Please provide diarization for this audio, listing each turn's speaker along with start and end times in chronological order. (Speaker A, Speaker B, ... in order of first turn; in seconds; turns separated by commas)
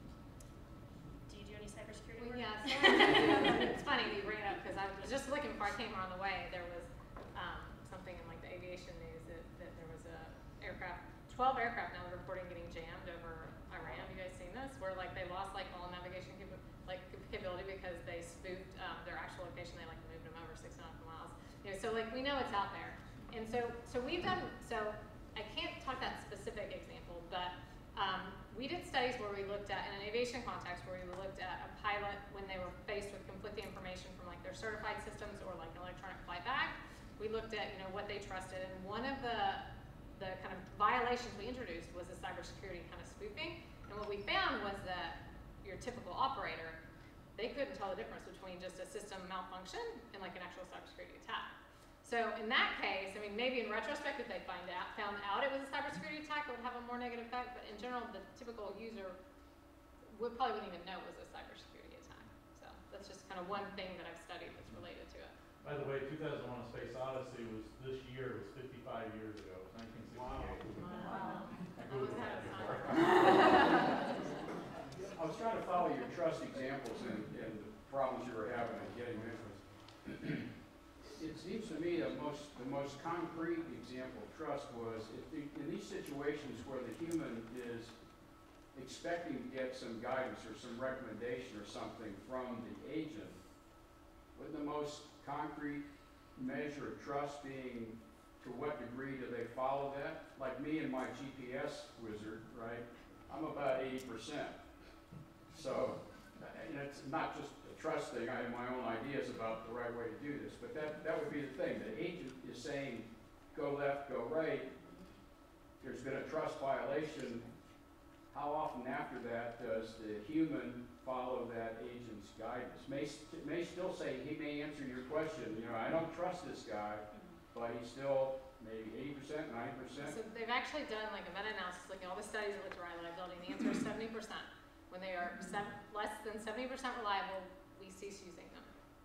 Speaker A: 1.3-3.5, Speaker B: 2.2-46.8, Speaker B: 47.4-59.2, Speaker B: 60.1-65.3, Speaker C: 65.6-71.0, Speaker B: 70.8-74.4, Speaker C: 71.7-74.0, Speaker D: 75.1-80.5, Speaker D: 81.0-88.0, Speaker D: 88.7-93.4, Speaker D: 94.3-104.6, Speaker D: 105.5-114.7, Speaker D: 115.8-117.5, Speaker D: 118.3-130.2, Speaker A: 127.1-127.4, Speaker B: 130.0-138.7